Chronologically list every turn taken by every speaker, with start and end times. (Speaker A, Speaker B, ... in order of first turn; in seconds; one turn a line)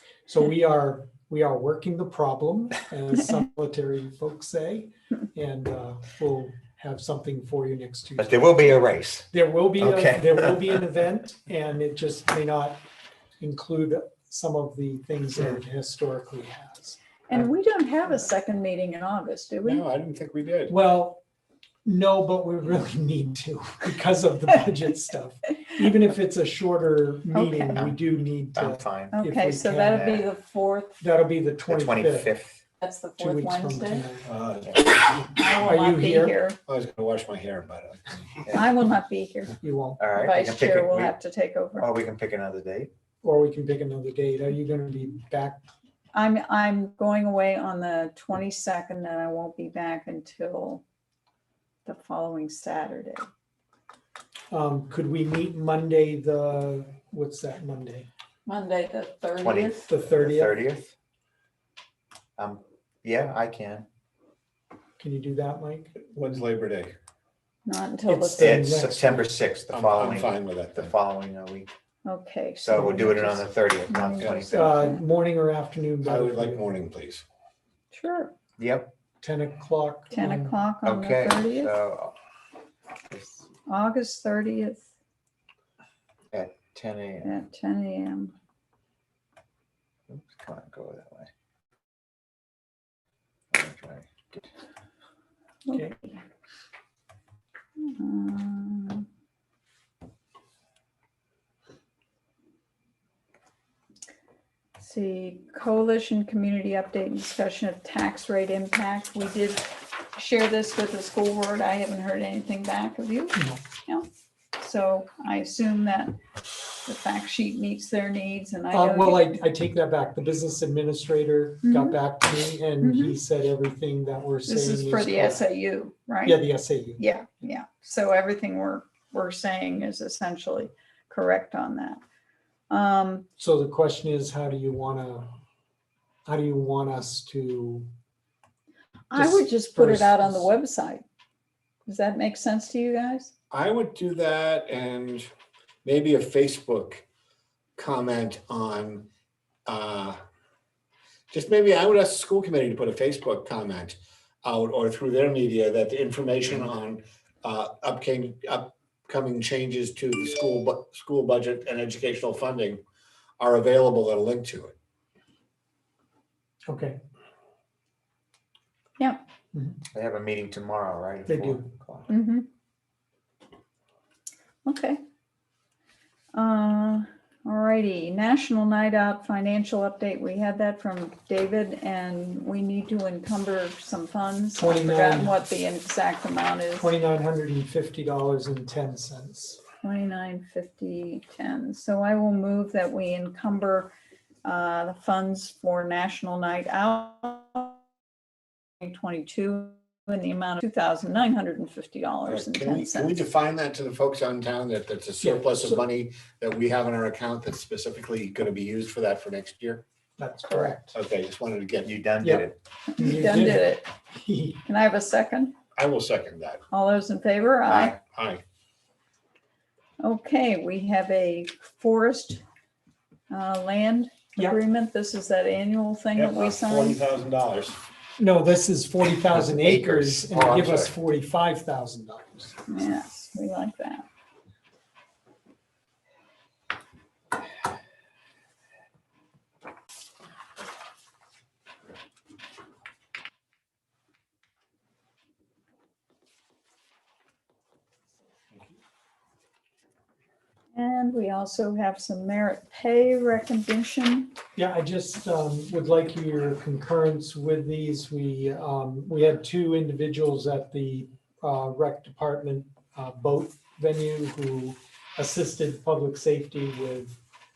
Speaker A: 0.3-8.6
Speaker B: 8.2-9.3
Speaker A: 9.3-12.8
Speaker B: 9.8-10.8
Speaker A: 13.4-17.0
Speaker C: 17.3-19.8
Speaker D: 19.6-20.7
Speaker A: 20.7-21.2
Speaker A: 21.8-30.2
Speaker C: 27.3-27.9
Speaker B: 28.5-29.2
Speaker C: 29.1-31.0
Speaker B: 29.9-30.2
Speaker A: 31.0-32.3
Speaker B: 31.7-32.6
Speaker C: 32.8-34.1
Speaker A: 33.2-36.4
Speaker D: 34.2-35.1
Speaker C: 35.3-36.6
Speaker D: 36.7-38.2
Speaker C: 38.5-39.5
Speaker A: 39.6-40.0
Speaker B: 40.0-41.2
Speaker C: 40.1-41.9
Speaker B: 41.8-42.9
Speaker A: 43.2-45.7
Speaker C: 46.1-50.8
Speaker C: 51.9-53.3
Speaker A: 54.5-58.1
Speaker C: 58.5-59.9
Speaker B: 59.4-60.9
Speaker A: 59.9-60.6
Speaker B: 62.4-63.9
Speaker A: 65.0-65.9
Speaker D: 66.0-66.9
Speaker C: 67.6-68.6
Speaker A: 68.0-69.3
Speaker B: 68.4-71.7
Speaker D: 69.7-70.9
Speaker C: 72.0-75.0
Speaker B: 72.6-74.5
Speaker D: 74.2-74.5
Speaker A: 74.5-76.7
Speaker D: 76.0-77.2
Speaker C: 77.9-78.3
Speaker B: 78.6-78.9
Speaker A: 79.2-80.6
Speaker C: 80.1-81.7
Speaker B: 80.8-82.1
Speaker B: 83.1-83.4
Speaker C: 83.7-84.9
Speaker B: 86.3-87.3
Speaker C: 87.2-88.3
Speaker B: 90.1-91.3
Speaker B: 93.5-94.4
Speaker C: 95.7-96.2
Speaker C: 97.8-99.1
Speaker C: 104.8-116.2
Speaker A: 113.3-113.6
Speaker C: 116.8-119.3
Speaker A: 118.7-125.4
Speaker C: 121.6-122.0
Speaker C: 122.8-123.2
Speaker C: 124.5-126.4
Speaker A: 126.2-127.0
Speaker C: 127.0-132.0
Speaker C: 132.7-133.3
Speaker A: 133.4-135.3
Speaker A: 136.2-137.9
Speaker C: 139.1-141.0
Speaker A: 139.1-140.5
Speaker C: 141.8-143.3
Speaker D: 143.5-145.3
Speaker D: 145.8-147.0
Speaker D: 147.8-149.1
Speaker D: 149.7-150.2
Speaker D: 151.3-162.8
Speaker D: 163.4-164.7
Speaker A: 166.7-167.0
Speaker C: 169.0-169.2
Speaker A: 169.5-169.8
Speaker B: 169.9-172.1
Speaker A: 171.3-171.7
Speaker C: 172.1-172.5
Speaker C: 174.6-175.0
Speaker C: 176.3-186.9
Speaker A: 184.5-185.4
Speaker A: 186.8-189.6
Speaker C: 189.8-193.9
Speaker C: 194.4-197.8
Speaker C: 198.8-203.2
Speaker D: 202.2-209.8
Speaker A: 205.2-205.8
Speaker A: 210.2-210.9
Speaker C: 210.4-210.8
Speaker D: 210.9-211.9
Speaker B: 211.8-212.6
Speaker A: 212.2-214.6
Speaker C: 212.9-213.8
Speaker C: 214.6-215.5
Speaker D: 215.8-216.6
Speaker C: 216.7-218.0
Speaker B: 217.7-218.0
Speaker D: 218.1-218.4
Speaker C: 220.0-222.4
Speaker C: 223.3-227.0
Speaker D: 226.2-227.8
Speaker A: 228.2-232.5
Speaker B: 229.3-230.9
Speaker C: 232.7-234.0
Speaker C: 250.7-254.3
Speaker A: 254.6-267.2